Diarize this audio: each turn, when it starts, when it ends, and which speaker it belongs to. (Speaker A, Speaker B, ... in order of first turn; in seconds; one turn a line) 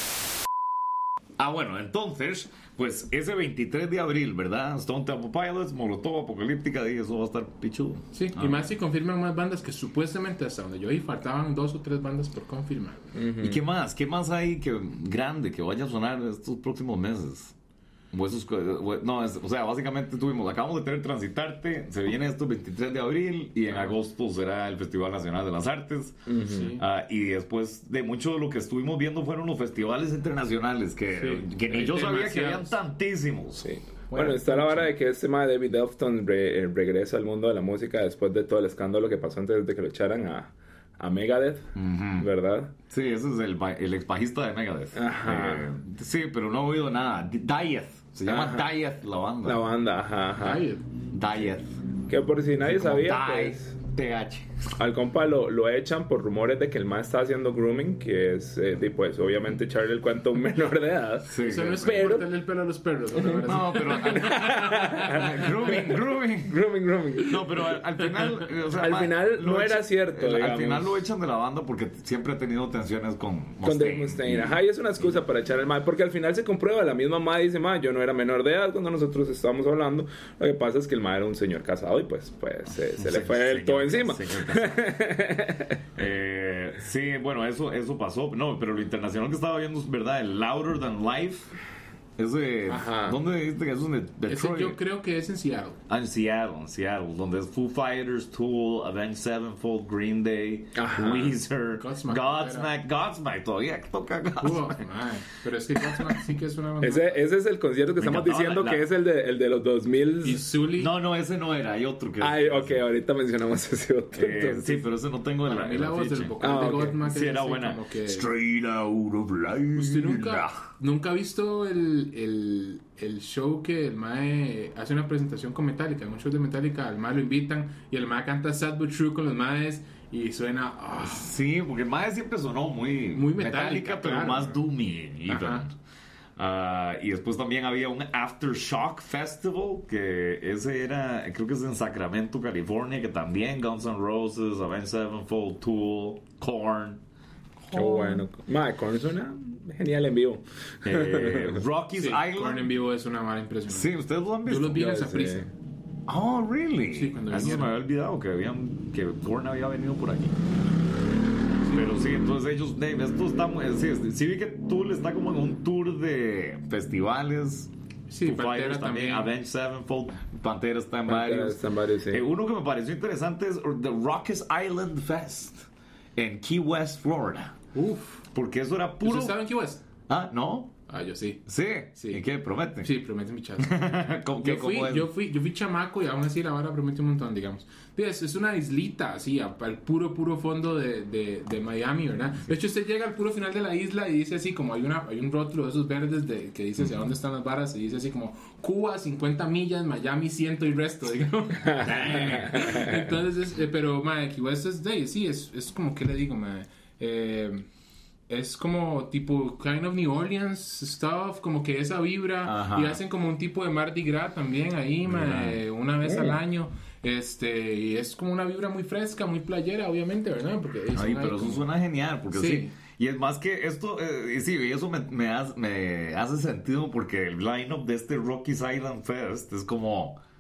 Speaker A: 1.4-8.6
Speaker B: 8.1-13.0
Speaker C: 13.2-13.6
Speaker A: 13.4-17.6
Speaker A: 18.1-33.7
Speaker C: 26.3-26.7
Speaker B: 26.5-26.8
Speaker B: 31.2-32.8
Speaker C: 33.6-41.7
Speaker B: 34.1-34.9
Speaker A: 41.8-42.3
Speaker C: 42.2-42.7
Speaker A: 42.9-49.6
Speaker C: 45.0-45.7
Speaker C: 48.3-48.7
Speaker C: 49.4-50.6
Speaker B: 50.4-50.9
Speaker A: 51.1-51.7
Speaker C: 52.1-53.6
Speaker A: 52.6-54.5
Speaker C: 54.8-62.3
Speaker A: 61.3-62.2
Speaker B: 61.4-65.4
Speaker C: 63.2-67.5
Speaker A: 63.3-66.6
Speaker A: 67.2-74.6
Speaker C: 68.8-70.9
Speaker C: 73.6-86.0
Speaker A: 83.0-84.9
Speaker A: 86.0-91.5
Speaker A: 92.2-94.8
Speaker C: 92.7-93.2
Speaker B: 94.3-95.8
Speaker A: 95.9-104.8
Speaker C: 100.8-101.3
Speaker B: 101.8-102.7
Speaker B: 104.4-107.2
Speaker C: 106.8-110.5
Speaker A: 108.0-108.8
Speaker B: 110.2-110.9
Speaker A: 110.8-112.8
Speaker C: 112.2-114.8
Speaker A: 114.2-116.4
Speaker B: 115.5-118.3
Speaker C: 116.4-117.0
Speaker A: 117.0-120.5
Speaker B: 119.8-131.3
Speaker A: 131.0-135.8
Speaker B: 133.1-134.6
Speaker B: 135.3-135.7
Speaker A: 136.4-147.0
Speaker A: 147.6-148.2
Speaker C: 147.7-151.6
Speaker A: 150.8-152.7
Speaker B: 152.0-155.5
Speaker A: 153.7-155.1
Speaker C: 154.7-155.5
Speaker A: 156.1-160.3
Speaker B: 156.9-157.7
Speaker B: 161.7-161.9
Speaker A: 161.7-167.7
Speaker B: 168.1-169.3
Speaker A: 168.2-177.6
Speaker C: 171.1-172.2
Speaker B: 177.7-178.2
Speaker A: 178.3-179.4
Speaker B: 179.0-179.8
Speaker A: 180.1-180.7
Speaker B: 180.9-181.4
Speaker A: 181.5-182.9
Speaker B: 182.0-182.2
Speaker B: 182.8-183.7
Speaker A: 183.6-185.1
Speaker B: 184.4-207.7
Speaker A: 201.8-202.8
Speaker C: 202.4-203.1
Speaker B: 208.3-221.7
Speaker A: 212.4-213.0
Speaker A: 215.1-215.6
Speaker C: 216.1-216.4
Speaker A: 220.9-230.2
Speaker B: 222.3-222.7